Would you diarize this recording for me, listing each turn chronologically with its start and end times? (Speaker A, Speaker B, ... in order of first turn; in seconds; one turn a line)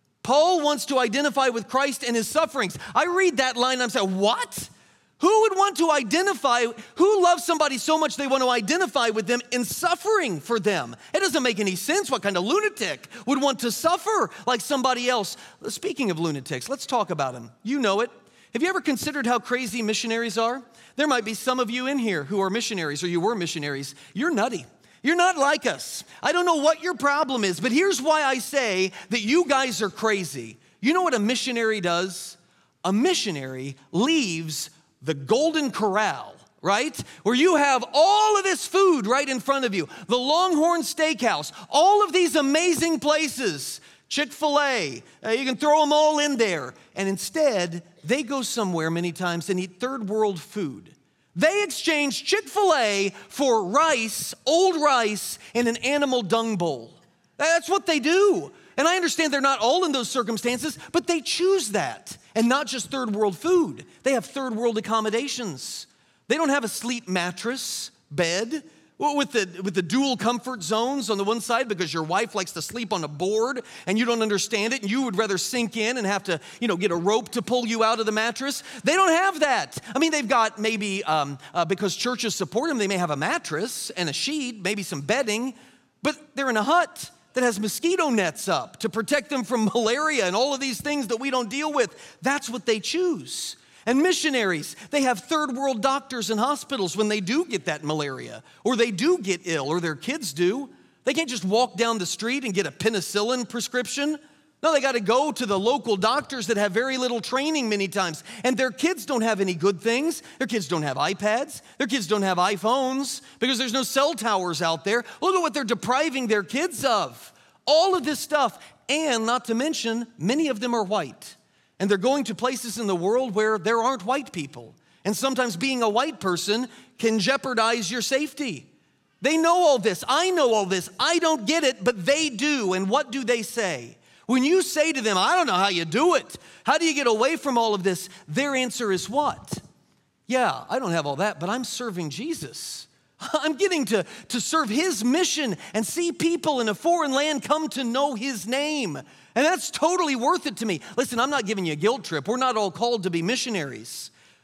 Speaker A: 0.2-128.7
Speaker A: 129.2-139.6
Speaker A: 140.3-154.1